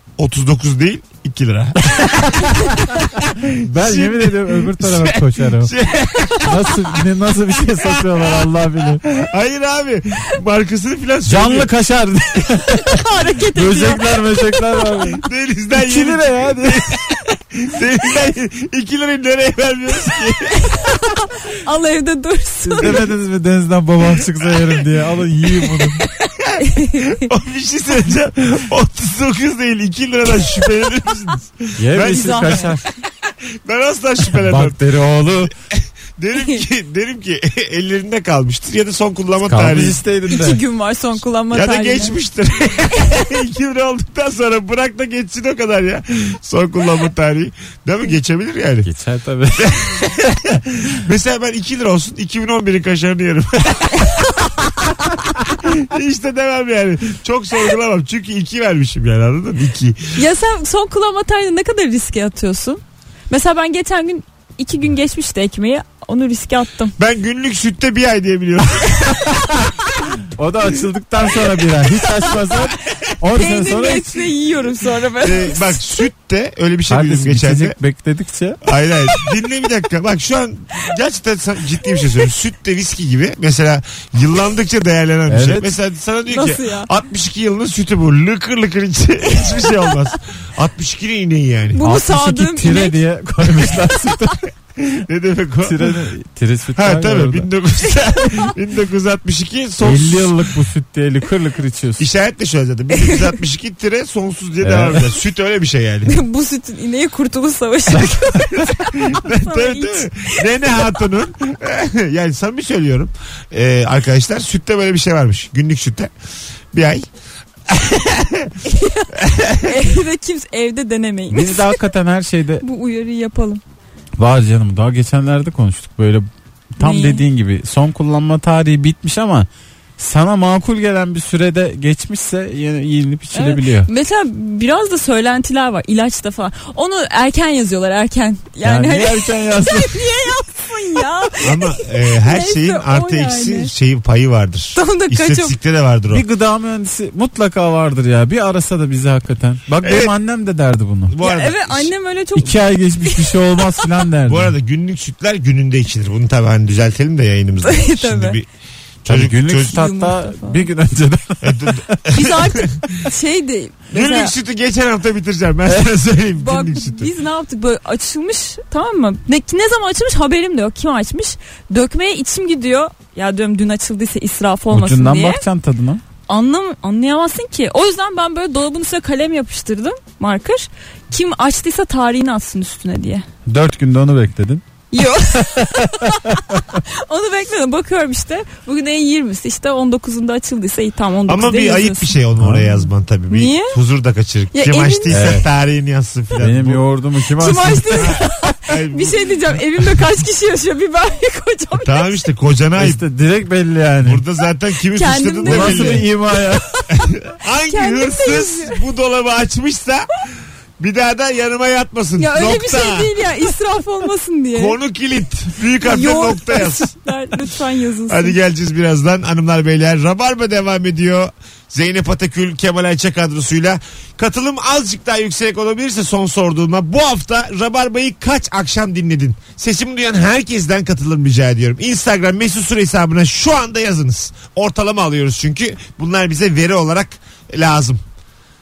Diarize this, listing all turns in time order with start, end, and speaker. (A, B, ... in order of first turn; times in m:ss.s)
0:00.2-0:06.8 A
0:03.6-0:05.7 B
0:06.4-0:09.0 B
0:07.8-0:08.5 A
0:09.0-0:11.7 A
0:11.3-0:13.0 B
0:12.7-0:15.0 C
0:13.5-0:15.2 B
0:15.2-0:20.9 A
0:15.8-0:17.0 B
0:20.5-0:23.1 C
0:22.6-0:26.0 B
0:26.4-0:32.7 A
0:26.6-0:27.3 C
0:31.8-0:32.8 B
0:32.0-0:32.7 C
0:33.6-0:34.9 A
0:34.4-0:35.5 B
0:35.7-0:40.0 A
0:39.5-0:40.6 B
0:40.3-0:42.2 C
0:41.5-0:48.9 A
0:48.8-0:49.8 B
0:49.6-0:54.7 A
0:55.3-1:00.2 A
1:00.2-1:07.0 C
1:07.0-1:09.2 A
1:10.3-1:14.2 B
1:13.3-1:15.9 C
1:15.2-1:17.8 A
1:16.9-1:18.6 B
1:18.6-1:31.8 A
1:25.3-1:25.7 B
1:26.3-1:26.9 C
1:31.7-1:34.3 C
1:31.8-1:34.4 B
1:34.8-1:36.1 A
1:35.6-1:37.5 B
1:36.8-1:40.5 A
1:39.8-1:42.1 B
1:42.0-1:46.2 A
1:42.9-1:43.4 C
1:44.6-1:45.0 B
1:46.1-1:50.8 C
1:48.4-1:56.1 A
1:56.7-1:57.1 A
1:57.7-1:58.6 A
1:58.6-2:01.8 C
1:59.2-1:59.8 A
2:01.3-2:02.6 B
2:02.6-2:03.6 C
2:04.2-2:13.9 B
2:06.8-2:07.2 C
2:13.3-2:23.7 C
2:18.6-2:20.0 B
2:21.4-2:26.2 A
2:24.8-2:25.5 C
2:26.1-2:31.2 B
2:29.8-2:30.1 A
2:31.1-2:31.9 A
2:31.2-2:33.4 C
2:32.4-2:34.5 B
2:34.3-2:38.5 A
2:37.6-2:38.4 C
2:39.0-2:39.8 A
2:39.0-2:42.0 B
2:39.6-2:40.7 C
2:41.4-2:42.8 A
2:42.1-2:44.3 C
2:43.9-2:47.1 A
2:46.4-2:55.4 C
2:54.7-2:56.0 B
2:56.3-3:03.3 C
3:03.5-3:04.6 B
3:04.9-3:12.2 C
3:05.3-3:06.8 B
3:11.3-3:16.8 A
3:12.4-3:12.7 B
3:13.3-3:13.8 C
3:14.5-3:15.1 C
3:15.1-3:15.5 B
3:16.4-3:18.2 B
3:17.4-3:22.1 C
3:18.0-3:19.5 A
3:21.8-3:23.0 A
3:22.8-3:24.2 B
3:24.0-3:26.1 A
3:24.9-3:27.1 C
3:25.5-3:26.6 B
3:26.9-3:30.1 A
3:27.7-3:28.8 C
3:30.8-3:33.1 A
3:32.2-3:34.8 C
3:34.5-3:36.9 A
3:35.8-3:38.4 C
3:38.1-3:58.0 A